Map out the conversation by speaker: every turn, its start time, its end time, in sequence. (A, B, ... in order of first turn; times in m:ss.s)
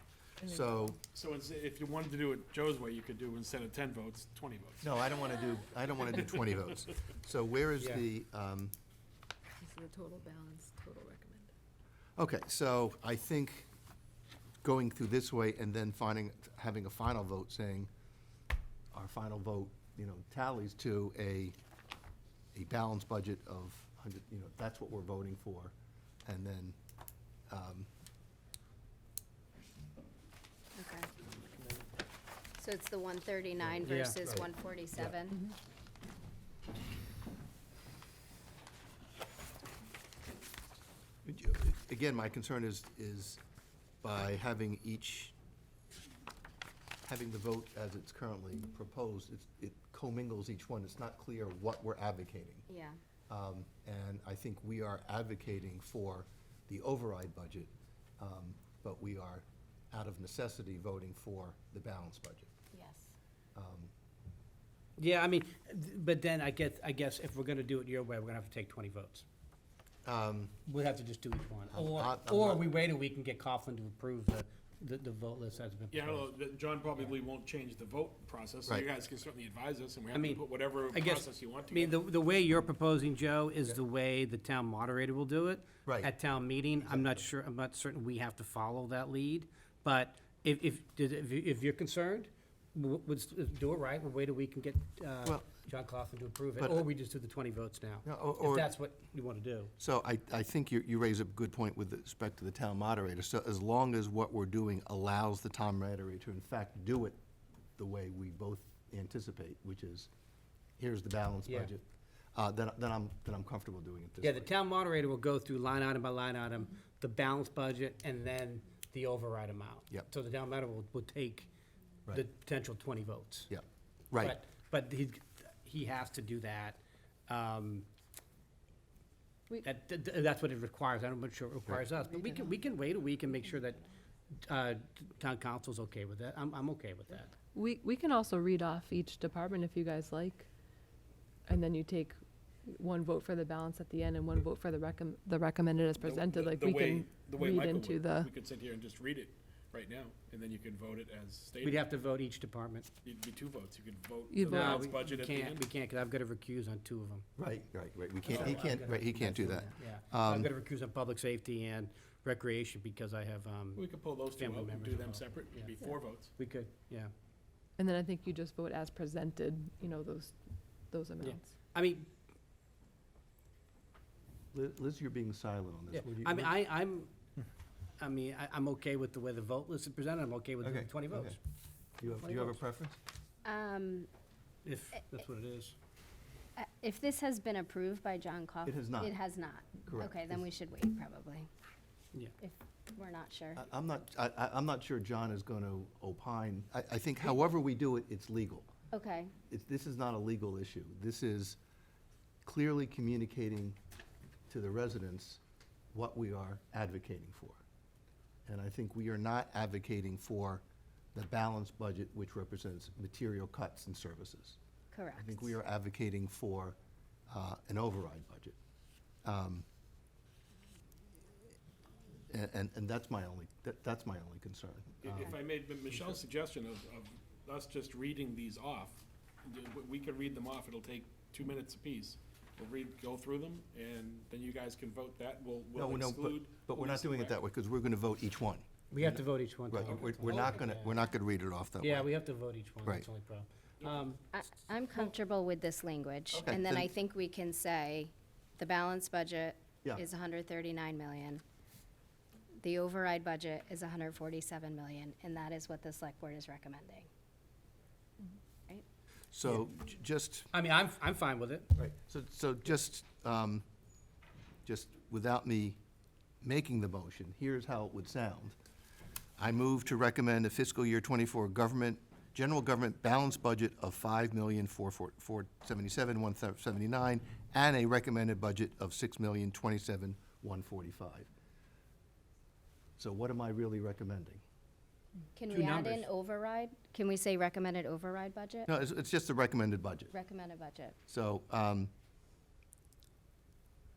0:00.4-0:01.0 A
0:00.4-0:01.0 B
0:01.1-0:04.9 C
0:04.8-0:08.7 B
0:07.8-0:08.0 D
0:09.6-0:11.5 A
0:12.2-0:13.7 B
0:14.6-0:17.9 B
0:18.9-0:21.5 B
0:22.5-0:25.7 B
0:26.2-0:26.8 B
0:27.5-0:27.9 B
0:30.8-0:31.1 E
0:32.6-0:35.4 E
0:33.8-0:34.2 D
0:34.2-0:35.2 B
0:41.2-0:43.4 B
0:44.0-0:45.3 B
0:47.0-0:52.6 B
0:52.7-0:53.0 E
0:53.3-1:02.5 B
1:02.7-1:03.1 E
1:03.5-1:03.9 B
1:05.0-1:09.2 D
1:10.0-1:10.6 B
1:10.6-1:16.2 D
1:11.7-1:12.6 B
1:15.9-1:22.0 C
1:20.1-1:39.7 D
1:25.8-1:26.1 B
1:26.8-1:27.2 B
1:36.6-1:36.8 B
1:38.0-1:38.7 B
1:39.8-1:47.2 B
1:47.8-1:50.1 B
1:50.8-1:51.8 B
1:51.4-1:51.7 D
1:52.3-1:54.5 B
1:54.2-2:01.5 D
2:02.1-2:03.5 D
2:03.5-2:04.4 B
2:04.2-2:07.9 D
2:09.6-2:13.8 D
2:14.4-2:17.3 D
2:17.5-2:20.5 A
2:21.5-2:28.3 A
2:26.0-2:31.9 C
2:31.6-2:32.9 D
2:33.0-2:35.7 C
2:34.3-2:35.0 A
2:34.4-2:37.2 D
2:37.4-2:40.5 B
2:38.2-2:47.1 D
2:38.2-2:38.5 C
2:43.7-2:46.3 C
2:47.8-2:51.5 A
2:51.2-2:52.1 D
2:54.5-2:56.5 B
2:55.9-2:57.1 D
2:58.0-3:01.4 D
3:00.6-3:01.4 B
3:02.0-3:03.0 B
3:03.4-3:04.1 E
3:04.6-3:05.7 D
3:06.6-3:11.5 E
3:08.6-3:09.2 B
3:09.8-3:10.5 B
3:12.4-3:13.6 E
3:13.5-3:18.7 B
3:18.9-3:19.3 E
3:19.5-3:21.6 B
3:22.4-3:23.8 B
3:24.5-3:25.4 B
3:25.9-3:27.6 B
3:28.5-3:30.6 B
3:31.1-3:34.6 B
3:34.9-3:35.5 E
3:35.1-3:36.8 B
3:37.3-3:38.6 B
3:39.2-3:39.6 B
3:42.3-3:45.3 B
3:45.0-3:57.4 C
3:55.7-4:02.1 B
3:58.9-4:01.0 D
4:01.8-4:04.2 D
4:04.3-4:11.4 E
4:06.3-4:06.9 B
4:12.6-4:17.1 E
4:19.3-4:20.5 B
4:20.5-4:21.7 D
4:21.7-4:23.6 B
4:24.6-4:25.8 B
4:26.4-4:28.5 B
4:29.4-4:41.3 B
4:43.0-4:44.4 B
4:45.3-4:48.7 E
4:45.5-4:46.1 D
4:48.7-4:50.1 B
4:50.1-4:51.0 E
4:51.1-4:51.9 B